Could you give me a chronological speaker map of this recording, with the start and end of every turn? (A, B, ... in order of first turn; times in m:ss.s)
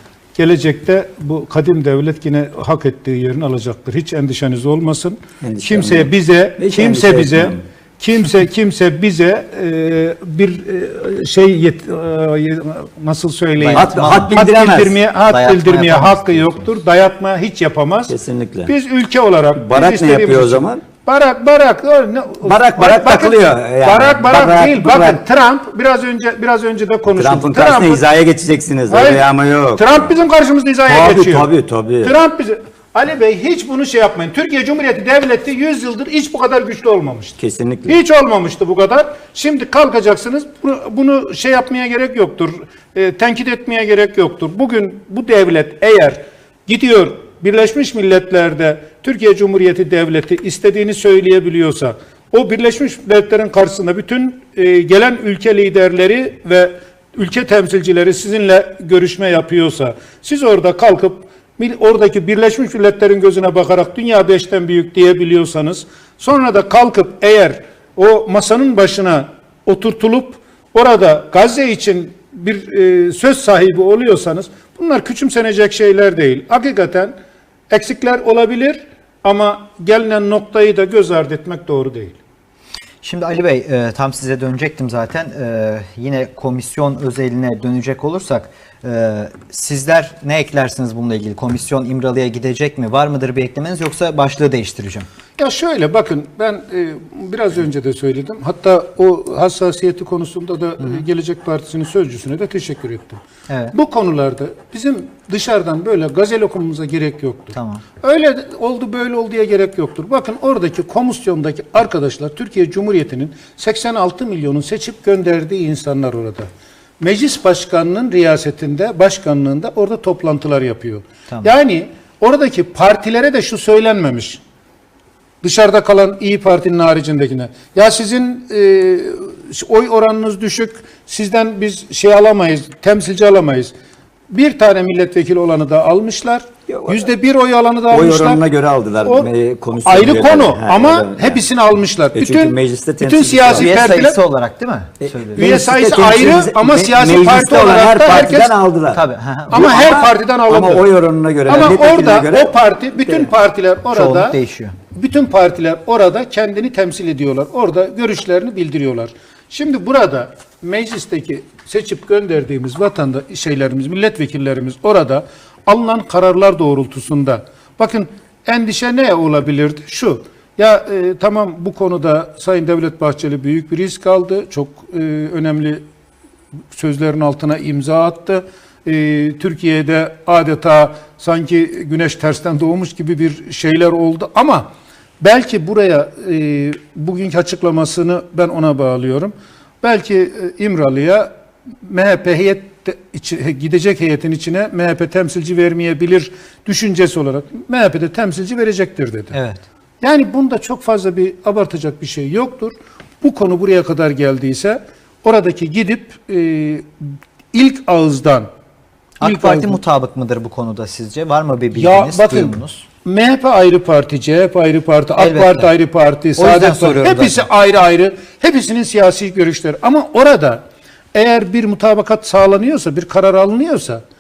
0:00.4-0:18.2 A
0:05.4-0:07.6 B
0:13.6-0:14.3 C
0:13.7-0:15.0 B
0:15.3-0:16.7 C
0:18.1-0:18.7 B
0:18.7-0:28.0 A
0:19.6-0:20.8 B
0:22.4-0:25.2 B
0:27.2-0:30.1 B
0:28.9-0:29.2 A
0:29.8-0:31.5 A
0:30.9-0:32.2 B
0:32.0-0:37.4 A
0:37.4-0:38.0 B
0:37.9-1:17.2 A
1:17.7-1:22.2 A
1:23.0-1:35.1 C
1:35.4-1:43.2 A
1:43.5-1:43.7 C
1:43.7-1:56.5 A
1:47.5-1:47.8 C
1:57.0-2:04.4 A
2:05.4-2:13.7 A
2:14.3-2:18.4 A
2:16.7-2:17.1 B
2:17.9-2:21.4 B
2:19.0-2:19.3 A
2:19.8-2:24.2 A
2:22.2-2:23.9 B
2:23.5-2:25.5 C
2:25.0-2:33.3 B
2:25.4-2:28.5 A
2:28.9-2:29.8 C
2:29.5-2:30.8 A
2:31.5-2:34.4 A
2:33.9-2:34.8 C
2:34.9-2:55.8 A
2:56.7-3:11.3 A
3:11.8-3:19.4 A
3:19.3-3:19.6 C
3:20.0-3:26.9 A
3:27.5-3:28.5 A
3:29.2-3:32.8 C
3:29.2-3:29.8 A
3:31.8-3:40.6 A
3:35.2-3:35.7 C
3:36.4-3:37.4 C
3:41.1-3:44.0 A